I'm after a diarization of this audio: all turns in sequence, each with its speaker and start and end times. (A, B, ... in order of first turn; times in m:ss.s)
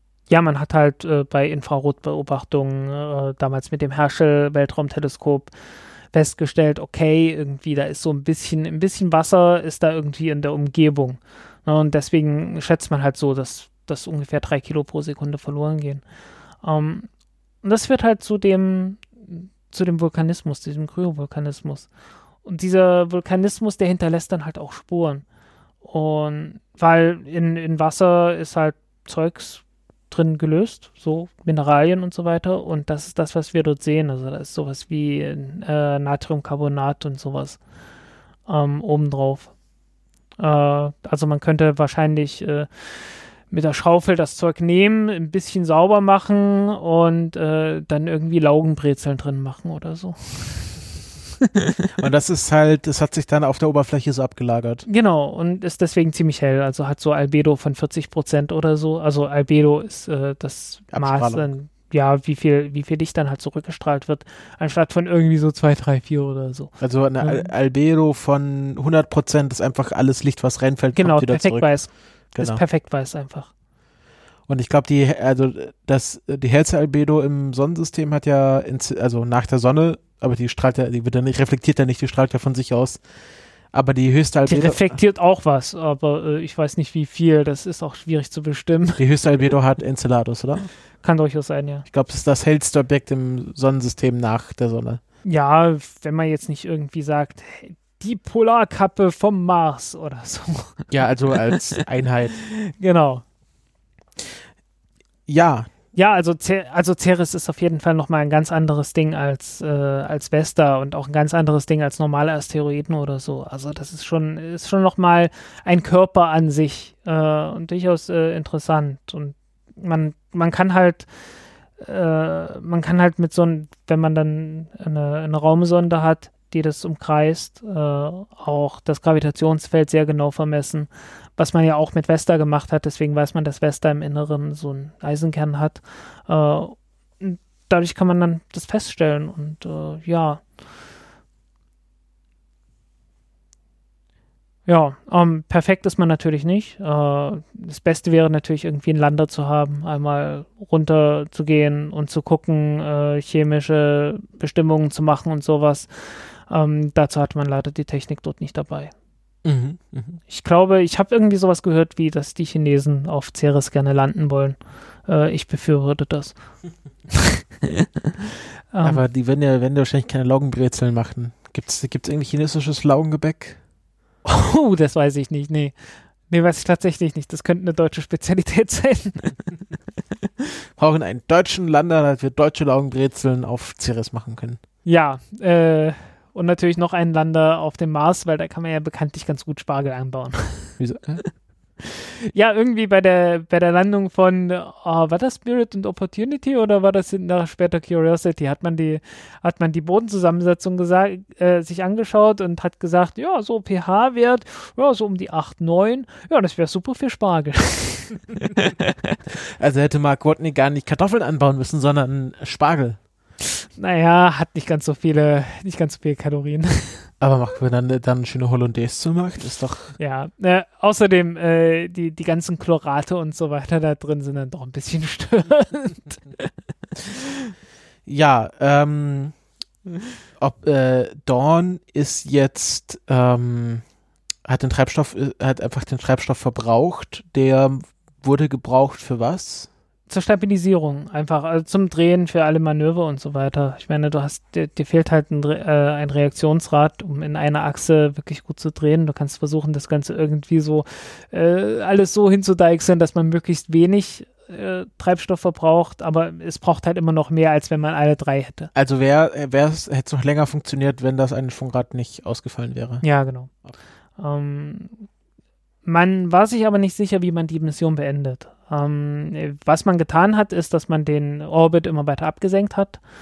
0:00.3-0:05.5 A
0:06.1-0:16.0 A
0:16.6-0:17.1 A
0:17.6-0:21.9 A
0:22.4-0:25.2 A
0:25.8-0:37.6 A
0:38.5-0:39.5 A
0:40.4-0:50.8 A
0:52.0-0:54.8 B
0:54.8-1:07.5 A
1:00.9-1:01.5 B
1:06.8-1:12.6 B
1:10.9-1:13.5 A
1:14.5-1:23.0 B
1:23.7-1:24.9 B
1:24.5-1:29.0 A
1:29.0-1:30.7 B
1:31.0-1:31.8 A
1:31.9-1:35.0 B
1:35.2-1:40.9 A
1:40.9-1:42.4 B
1:42.6-1:43.2 A
1:45.3-1:45.7 B
1:45.9-2:01.1 A
2:01.8-2:20.4 A
2:24.6-2:38.9 A
2:39.4-2:40.2 B
2:40.3-2:46.4 A
2:48.7-2:49.0 A
2:48.8-2:53.6 B
2:54.2-2:55.8 A
2:56.3-2:59.4 A
3:00.8-3:04.6 B
3:04.8-3:10.7 A
3:10.8-3:11.2 B
3:12.2-3:28.3 A
3:29.6-3:33.0 B
3:33.8-3:37.1 A
3:37.2-3:40.0 B
3:40.0-3:46.2 A
3:48.0-3:49.3 B
3:50.4-3:53.8 B
3:54.4-3:59.7 B
4:00.1-4:18.7 A
4:18.7-4:23.0 B
4:23.0-4:23.5 A
4:24.2-4:25.0 A
4:25.8-4:33.0 A